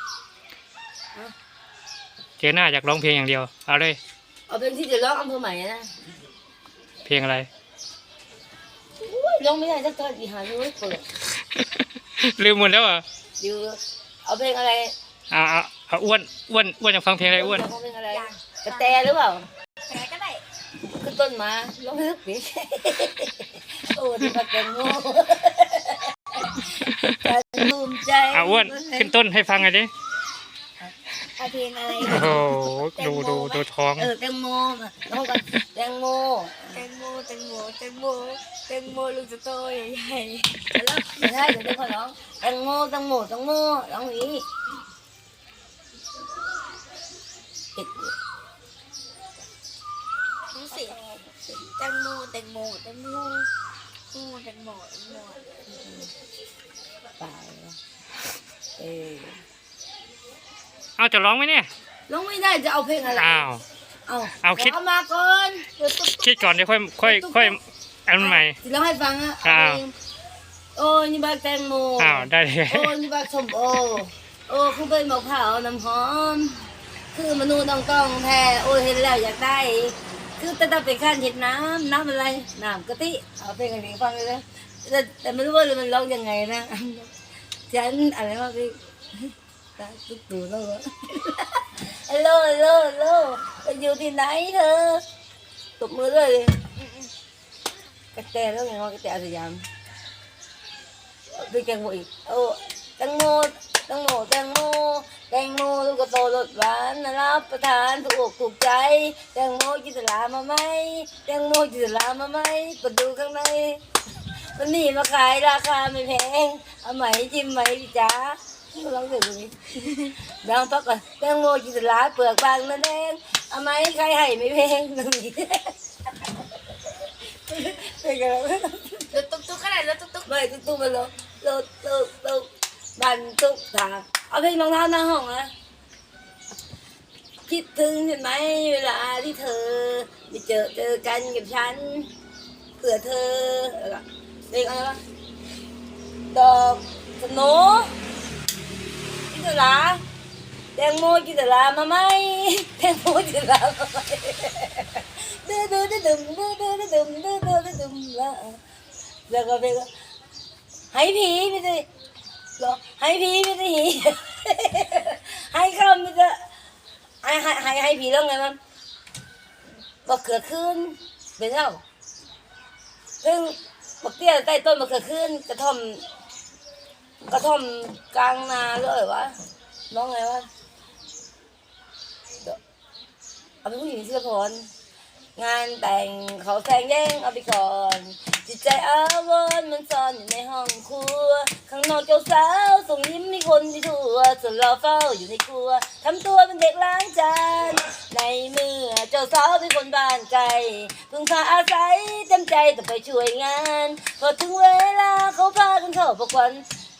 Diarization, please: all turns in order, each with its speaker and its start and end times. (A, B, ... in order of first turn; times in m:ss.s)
0:02.4-0:04.0 A
0:04.5-0:05.9 B
0:07.0-0:07.5 A
0:09.0-0:11.0 B
0:11.5-0:13.0 A
0:13.4-0:14.9 B
0:15.3-0:17.6 A
0:17.3-0:19.4 B
0:18.1-0:19.0 C
0:19.9-0:20.4 C
0:20.8-0:29.1 B
0:28.3-0:29.9 A
0:31.4-0:33.6 C
0:32.0-0:32.4 B
0:32.0-0:34.1 A
0:34.0-0:36.8 B
0:36.7-0:40.6 C
0:40.7-0:44.4 B
0:47.8-0:48.1 B
0:50.5-0:51.0 C
0:50.7-0:51.6 B
0:51.7-0:53.5 C
0:54.1-0:55.4 C
0:57.2-0:57.8 B
0:58.8-0:59.4 B
1:01.0-1:01.7 A
1:02.1-1:03.5 B
1:03.1-1:03.6 A
1:04.1-1:05.7 B
1:04.4-1:04.8 A
1:05.8-1:06.5 C
1:06.2-1:08.6 A
1:07.0-1:07.6 B
1:08.2-1:09.9 B
1:09.4-1:09.8 A
1:10.7-1:27.1 B
1:12.0-1:12.9 A
1:27.7-1:35.0 B
1:35.8-1:36.6 B
1:36.8-1:37.1 C
1:38.1-1:39.6 B
1:41.3-1:53.8 B
1:54.5-2:05.7 B
2:07.5-2:09.1 B
2:09.1-2:10.3 C
2:10.2-2:15.5 B
2:17.4-2:22.1 B
2:22.8-2:25.0 B
2:26.3-2:27.9 B
2:29.3-2:30.0 B
2:30.7-2:38.6 B
2:39.3-2:39.9 B
2:40.9-2:41.9 B
2:42.6-2:46.4 B
2:47.2-2:48.6 B
2:50.0-2:51.8 B
2:53.2-2:56.0 B
2:57.3-2:59.4 B
2:59.9-3:00.5 B
3:03.6-3:04.7 B
3:05.4-3:26.6 B